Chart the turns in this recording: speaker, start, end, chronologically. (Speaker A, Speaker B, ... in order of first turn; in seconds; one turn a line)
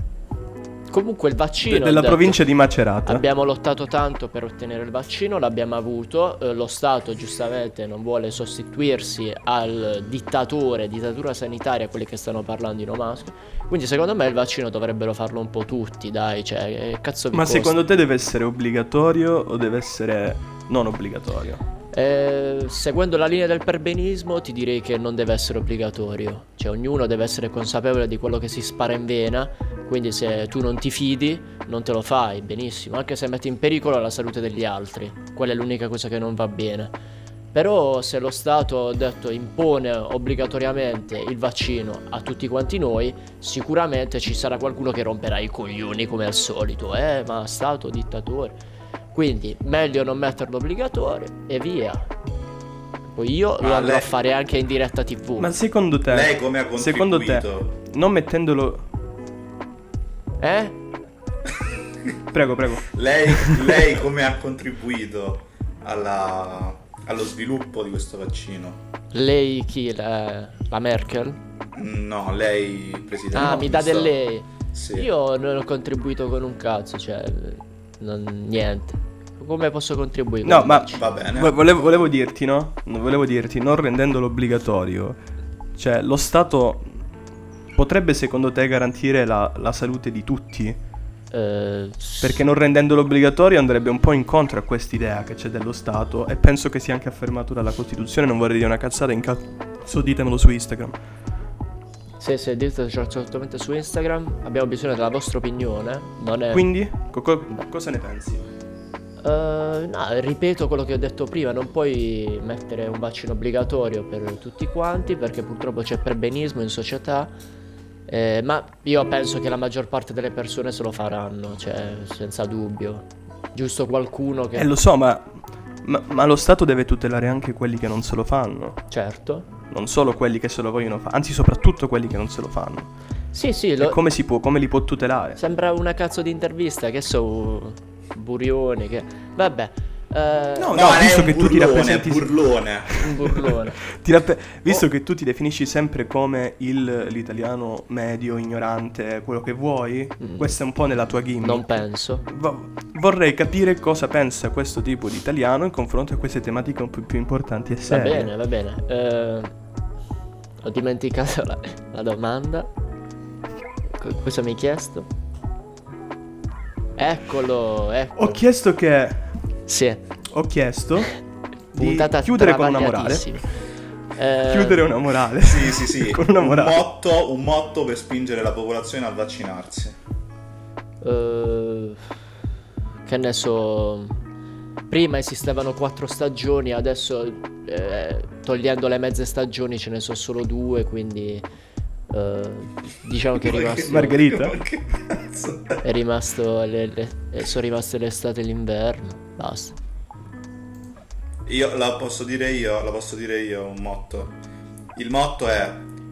Speaker A: 0.9-2.4
Speaker B: 1.6-3.2
Speaker A: 3.0-17.8
Speaker B: 17.3-21.6
Speaker A: 21.9-36.9
Speaker A: 37.5-48.5
Speaker A: 49.1-52.1
Speaker A: 53.0-55.5
Speaker C: 53.6-54.1
Speaker B: 55.4-58.9
Speaker C: 56.1-57.7
Speaker A: 60.4-60.8
Speaker B: 62.3-63.8
Speaker C: 62.9-68.8
Speaker A: 69.1-71.4
Speaker C: 71.8-74.2
Speaker A: 73.3-81.1
Speaker C: 74.7-75.1
Speaker B: 80.4-85.2
Speaker C: 81.0-81.6
Speaker B: 85.8-86.9
Speaker B: 87.8-90.8
Speaker A: 91.3-92.4
Speaker B: 92.2-101.0
Speaker A: 102.2-106.7
Speaker B: 106.5-108.5
Speaker A: 109.2-117.3
Speaker A: 118.1-124.7
Speaker B: 124.5-128.8
Speaker A: 128.9-129.5
Speaker B: 129.7-132.9
Speaker A: 133.3-134.0
Speaker B: 133.8-135.4
Speaker A: 135.4-140.8
Speaker B: 140.6-158.3
Speaker C: 140.7-142.9
Speaker A: 143.0-143.8
Speaker A: 150.2-150.6
Speaker A: 151.4-152.2
Speaker A: 157.9-159.5
Speaker A: 160.6-162.7
Speaker A: 163.9-165.1
Speaker A: 167.0-168.4
Speaker B: 168.2-169.2
Speaker A: 169.7-170.0
Speaker B: 170.3-173.3
Speaker A: 171.8-173.5
Speaker A: 174.2-174.9
Speaker B: 174.5-176.8
Speaker C: 175.4-180.0
Speaker A: 181.0-182.0
Speaker A: 183.1-184.2
Speaker A: 184.9-191.5
Speaker A: 192.1-194.3
Speaker C: 193.4-195.8
Speaker B: 193.8-194.6
Speaker A: 195.8-199.8
Speaker C: 201.5-204.3
Speaker C: 204.9-205.9